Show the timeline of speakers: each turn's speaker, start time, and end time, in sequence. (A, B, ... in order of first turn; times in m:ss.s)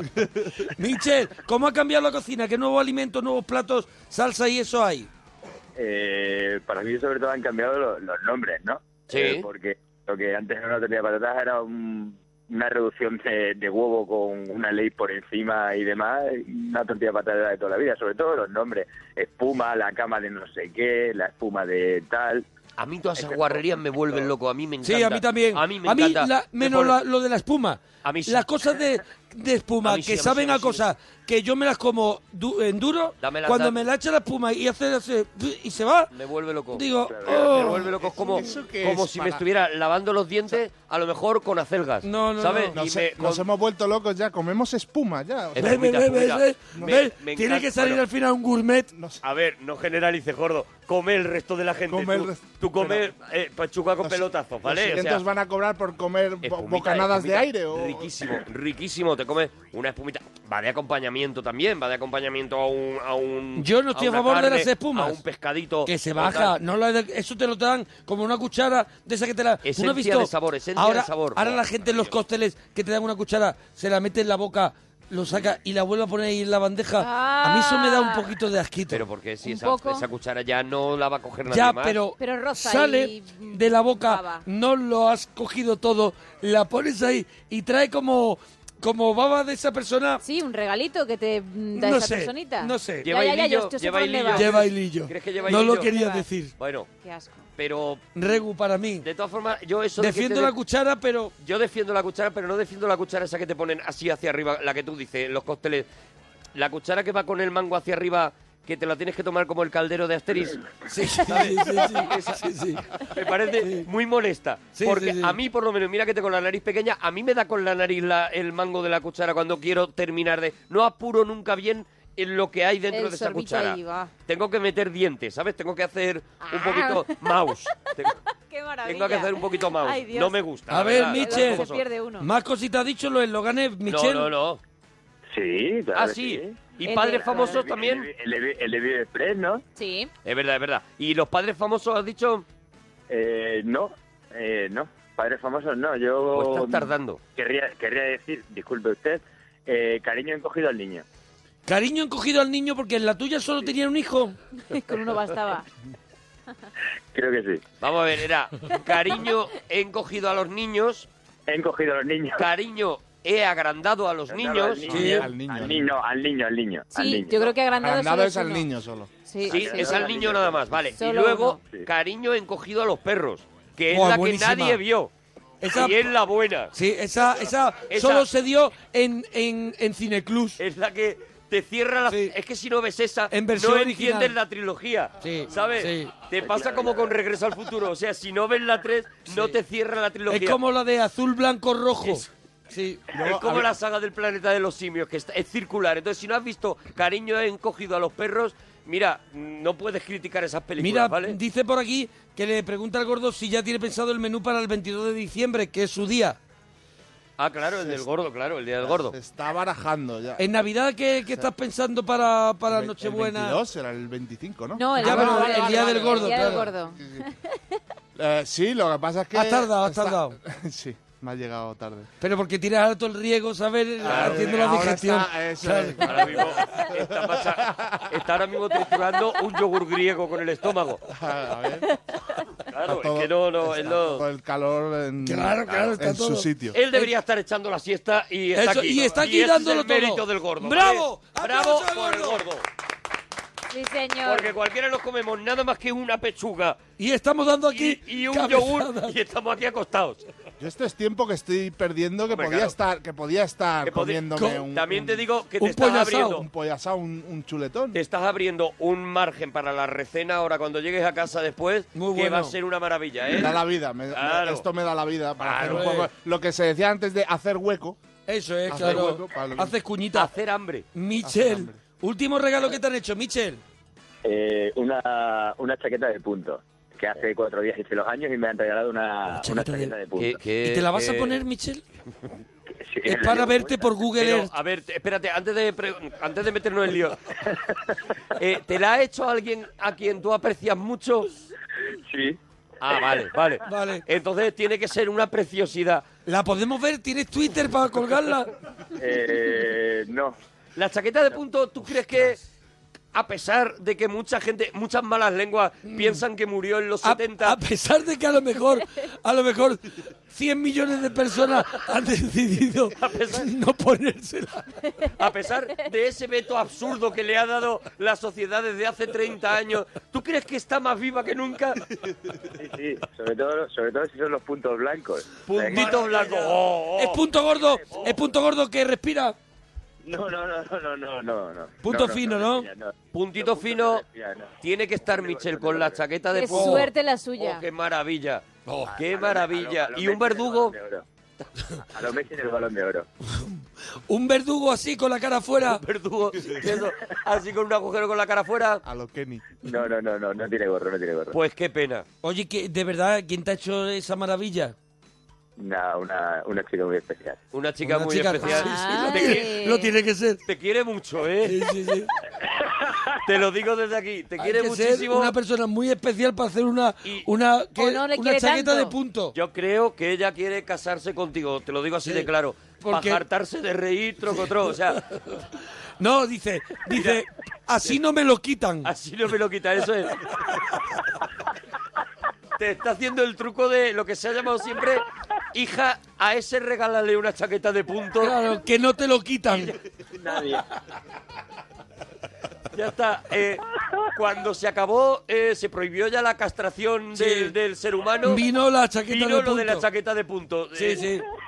0:00.8-0:05.1 A
0:05.8-0:22.4 B
0:09.1-0:09.5 C
0:22.8-0:27.0 C
0:23.2-0:23.6 B
0:24.8-0:36.1 A
0:28.0-0:28.8 C
0:29.8-0:30.9 C
0:33.2-0:33.8 C
0:36.1-0:43.5 C
0:36.7-0:37.8 A
0:37.1-0:37.8 B
0:37.7-0:39.4 D
0:42.0-0:42.8 A
0:42.7-0:45.8 D
0:45.6-0:48.0 C
0:45.6-0:48.9 A
0:48.9-0:49.2 D
0:49.2-0:55.2 C
0:51.9-0:53.0 D
0:54.0-0:58.2 D
0:56.4-1:06.6 C
1:03.6-1:05.2 A
1:05.9-1:19.1 A
1:09.6-1:12.2 C
1:17.0-1:18.3 E
1:18.9-1:22.0 C
1:19.4-1:20.1 E
1:21.5-1:30.2 A
1:22.2-1:24.4 E
1:30.2-1:34.6 E
1:31.7-1:33.1 A
1:33.0-1:35.9 C
1:34.3-1:36.5 A
1:35.9-1:36.3 E
1:36.6-1:36.9 C
1:37.0-1:37.5 E
1:37.6-1:38.2 C
1:38.2-1:39.1 A
1:39.0-1:40.5 C
1:40.0-1:41.3 A
1:41.4-1:45.9 C
1:46.6-1:52.4 C
1:50.9-1:52.8 A
1:53.0-2:08.2 C
1:53.6-1:53.9 A
1:54.8-1:55.4 A
2:02.9-2:04.1 E
2:06.4-2:07.2 E
2:08.5-2:12.3 E
2:08.8-2:11.8 C
2:10.7-2:14.3 A
2:13.9-2:14.6 C
2:15.3-2:19.6 B
2:15.9-2:18.1 C
2:16.9-2:17.7 E
2:19.8-2:20.1 E
2:20.2-2:22.4 C
2:23.1-2:31.0 B
2:26.3-2:27.2 C
2:31.7-2:34.4 A
2:34.7-2:35.7 E
2:37.1-2:37.6 B
2:37.8-2:41.1 C
2:41.5-2:42.5 B
2:42.4-2:45.3 C
2:44.3-2:47.6 B
2:44.9-2:45.9 D
2:44.9-2:45.3 A
2:46.9-2:48.7 E
2:47.8-2:49.1 D
2:49.3-2:50.2 E
2:49.5-2:50.8 B
2:49.5-2:55.1 C
2:51.0-2:51.6 E
2:53.9-2:54.8 A
2:55.6-2:56.0 A
2:55.7-2:56.7 C
2:56.7-3:00.6 A
2:57.9-2:58.3 C
3:00.6-3:10.6 C
3:02.1-3:02.3 A
3:03.3-3:04.3 A
3:05.2-3:06.1 A
3:06.4-3:07.2 B
3:09.3-3:09.6 A
3:10.3-3:13.0 A
3:13.1-3:13.7 D
3:13.1-3:21.4 C
3:20.8-3:26.4 A
3:27.4-3:29.2 C
3:27.7-3:28.1 D
3:28.8-3:30.4 D
3:30.4-3:33.6 A
3:32.7-3:37.2 D
3:34.8-3:37.3 E
3:35.0-3:36.7 A
3:38.2-3:42.1 D
3:39.3-3:40.4 A
3:42.2-3:46.5 A
3:44.0-3:48.1 D
3:44.0-3:44.8 C
3:46.0-3:51.0 C
3:51.1-3:51.9 D
3:52.7-3:54.3 C
3:52.8-3:56.8 D
3:55.2-3:57.1 A
3:55.7-3:56.0 C
3:56.7-4:02.6 C
3:58.6-4:02.4 A
4:03.7-4:04.5 E
4:04.2-4:06.8 C
4:07.0-4:09.2 A
4:07.7-4:10.2 C
4:10.6-4:15.2 D
4:12.3-4:12.8 C
4:13.8-4:16.4 C
4:14.4-4:14.6 A
4:15.6-4:16.4 A
4:16.3-4:18.0 D
4:17.9-4:23.6 C
4:22.0-4:22.5 A
4:23.3-4:28.0 D
4:24.1-4:24.6 C
4:25.4-4:26.0 C
4:25.6-4:26.1 A
4:28.3-4:30.3 A
4:28.7-4:29.7 D
4:30.1-4:30.9 C
4:31.0-4:33.6 A
4:31.2-4:31.8 D
4:34.2-4:40.4 B
4:39.4-4:39.9 A
4:40.2-4:41.4 C
4:40.6-4:41.8 A
4:42.8-4:43.9 B
4:43.0-4:44.5 A
4:44.2-4:47.2 C
4:48.4-4:51.3 C
4:52.1-4:52.4 B
4:52.8-4:56.0 C
4:53.6-4:54.0 A
4:56.3-4:58.5 A
4:59.0-5:00.4 B
5:00.8-5:02.4 C
5:03.1-5:07.6 C
5:05.9-5:06.2 A
5:07.0-5:14.7 A
5:13.0-5:13.5 C
5:15.2-5:21.8 C
5:22.6-5:26.6 B
5:25.5-5:27.2 C
5:25.7-5:26.1 A
5:27.0-5:29.4 A
5:27.5-5:28.2 B
5:30.0-5:36.0 B
5:31.8-5:32.7 A
5:33.1-5:34.0 C
5:34.6-5:40.8 C
5:36.3-5:37.6 E
5:36.5-5:36.9 A
5:38.9-5:41.0 B
5:41.9-5:43.1 B
5:44.1-5:45.8 A
5:45.6-5:48.8 C
5:48.8-5:49.5 D
5:49.6-5:51.4 B
5:51.3-5:52.0 C
5:52.2-5:54.8 A
5:55.6-5:57.4 B
5:57.5-5:59.6 C
5:57.8-6:00.4 A
5:58.4-5:59.9 E
6:00.5-6:01.6 C
6:01.4-6:02.1 A
6:03.2-6:05.3 C
6:04.4-6:09.3 A
6:07.8-6:08.9 E
6:09.3-6:15.0 C
6:12.0-6:12.3 A
6:12.8-6:13.2 A
6:16.0-6:18.9 A
6:16.9-6:17.2 C
6:18.8-6:20.3 C
6:22.6-6:28.4 C
6:28.2-6:29.7 A
6:29.5-6:29.8 C
6:30.2-6:30.6 B
6:32.7-6:33.6 C
6:34.1-6:38.4 C
6:37.2-6:37.5 A
6:38.2-6:39.9 A
6:39.1-6:41.1 C
6:40.8-6:41.2 A